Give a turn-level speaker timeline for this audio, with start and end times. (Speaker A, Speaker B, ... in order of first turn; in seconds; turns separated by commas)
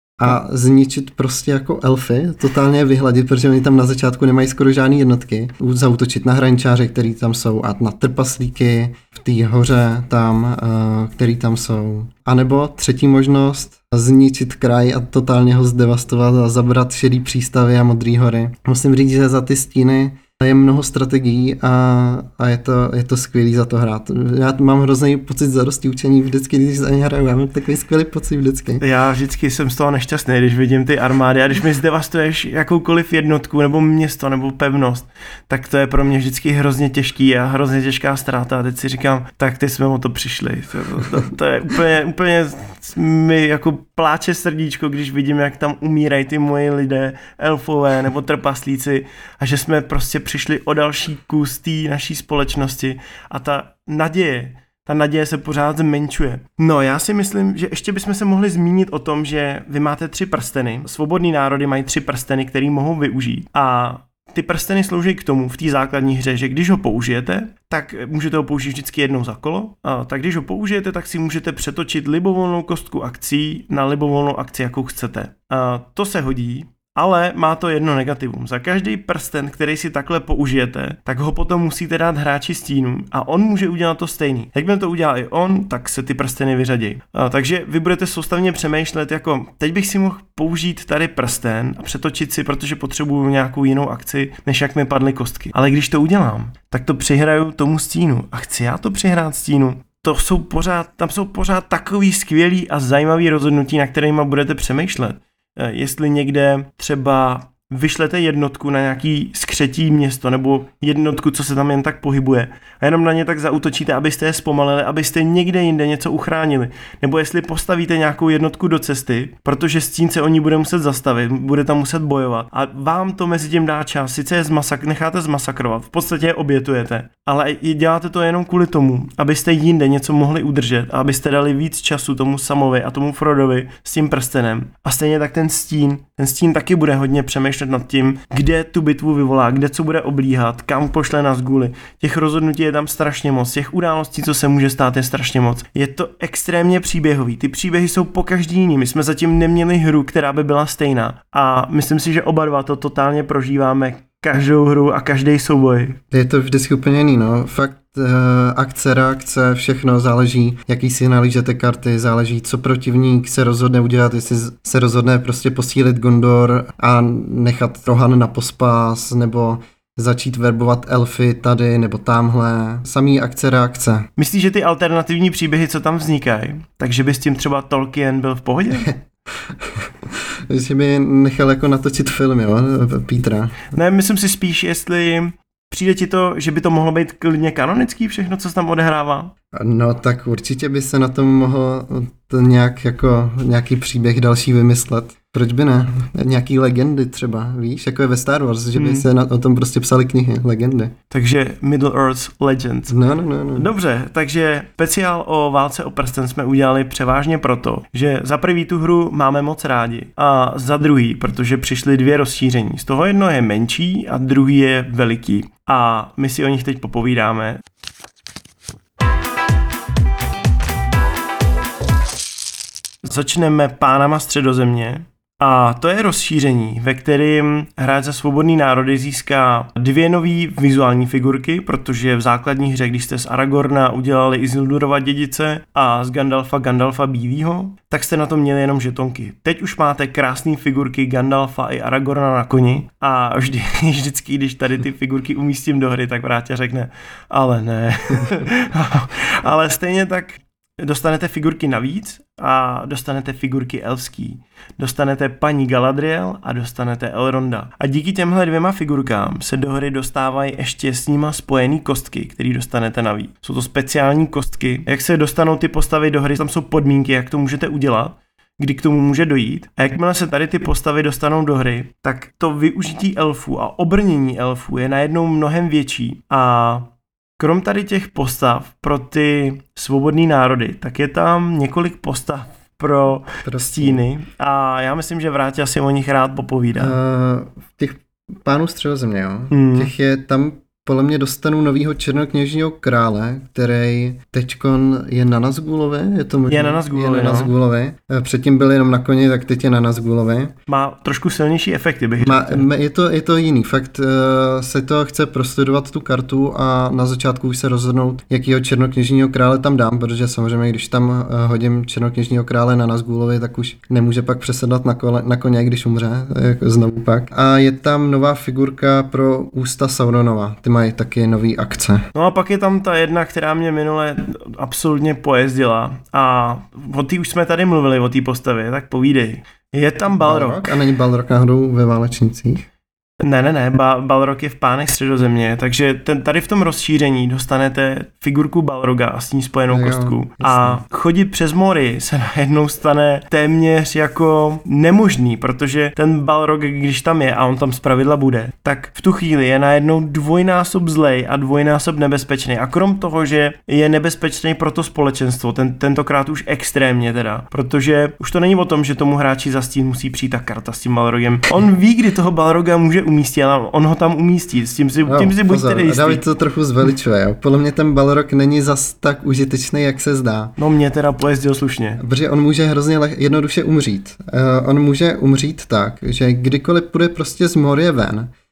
Speaker A: 0.2-28.8, Speaker B: 28.8-156.0, Speaker A: 156.1-174.1, Speaker B: 174.2-178.9, Speaker A: 179.4-183.7, Speaker B: 183.7-189.3, Speaker A: 189.5-200.9, Speaker B: 198.7-199.1, Speaker B: 201.1-203.0, Speaker A: 202.9-203.7, Speaker B: 203.5-217.6, Speaker B: 223.0-287.0, Speaker A: 283.4-284.0, Speaker A: 286.8-300.5, Speaker B: 289.5-289.9, Speaker B: 296.5-297.5, Speaker B: 300.7-302.6, Speaker A: 302.2-322.1, Speaker B: 322.1-330.7, Speaker A: 330.2-332.7, Speaker B: 333.2-366.2, Speaker A: 339.7-340.8, Speaker A: 365.1-370.6, Speaker B: 370.6-372.0, Speaker A: 372.0-378.3